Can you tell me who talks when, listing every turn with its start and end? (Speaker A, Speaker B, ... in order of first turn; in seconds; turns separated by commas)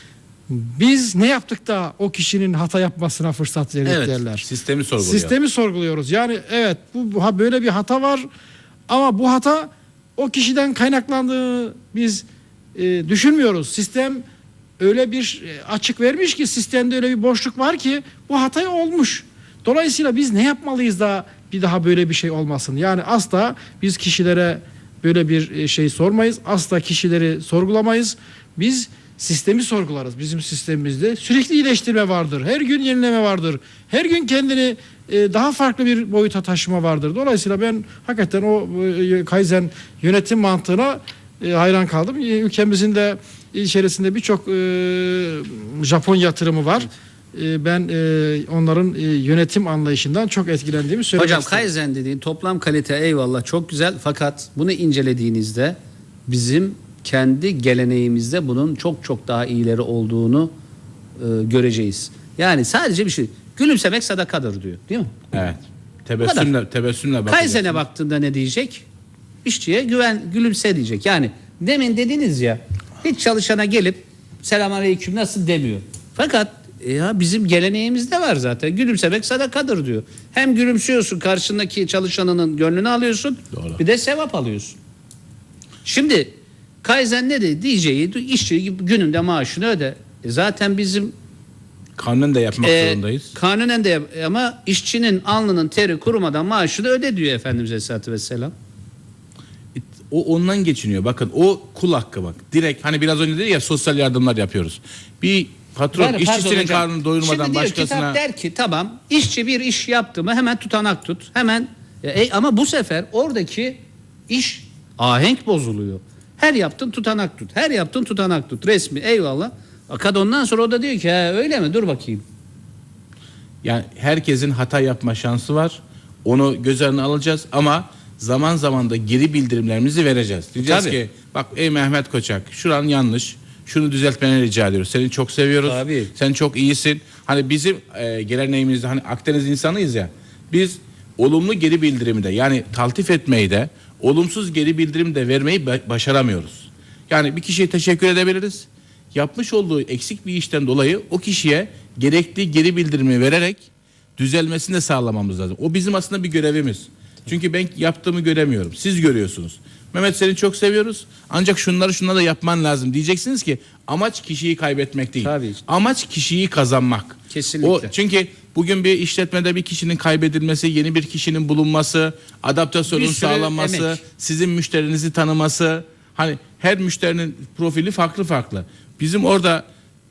Speaker A: 0.5-4.5, Speaker B: 3.9-4.2, Speaker C: 4.2-5.3, Speaker A: 5.0-8.3, Speaker A: 8.9-14.2, Speaker A: 14.8-51.7, Speaker B: 51.2-60.5, Speaker B: 61.2-65.1, Speaker C: 65.3-67.8, Speaker B: 66.2-66.5, Speaker B: 67.3-68.9, Speaker B: 69.4-84.8, Speaker C: 83.5-83.8, Speaker B: 85.8-91.2, Speaker C: 92.0-93.3, Speaker B: 92.6-98.5, Speaker C: 99.8-108.2, Speaker B: 106.0-122.2, Speaker C: 123.6-179.7, Speaker B: 130.6-131.0, Speaker B: 135.7-136.1, Speaker B: 165.2-165.6, Speaker B: 167.3-167.9, Speaker B: 172.9-174.0